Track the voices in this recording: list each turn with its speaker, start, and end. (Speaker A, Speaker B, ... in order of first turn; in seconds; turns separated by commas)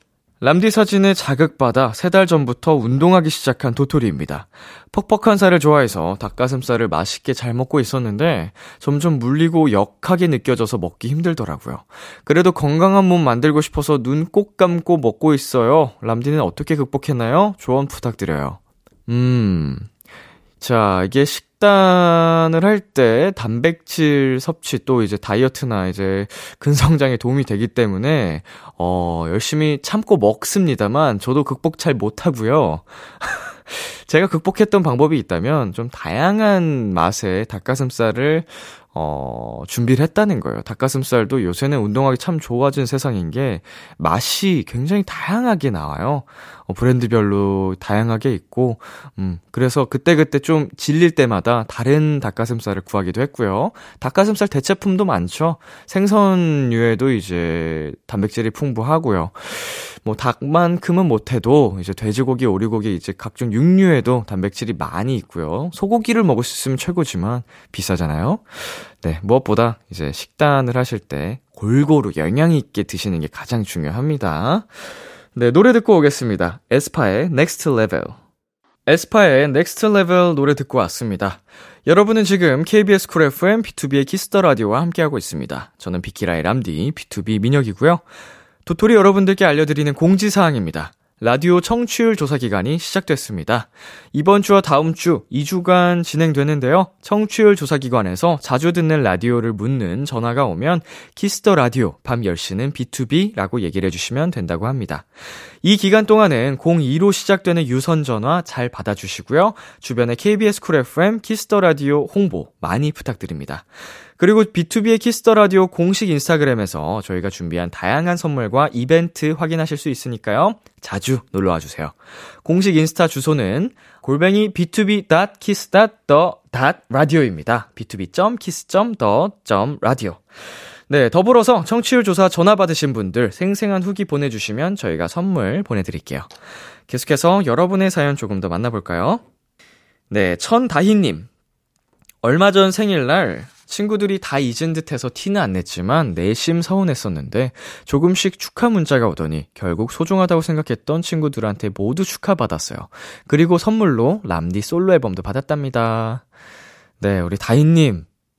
Speaker A: 0.4-19.9, Speaker A: 20.6-78.2, Speaker A: 78.9-88.0, Speaker A: 88.7-105.1, Speaker A: 105.6-130.3, Speaker A: 130.9-136.3, Speaker A: 136.9-139.2, Speaker A: 140.1-141.3, Speaker A: 142.2-156.2, Speaker A: 157.0-158.1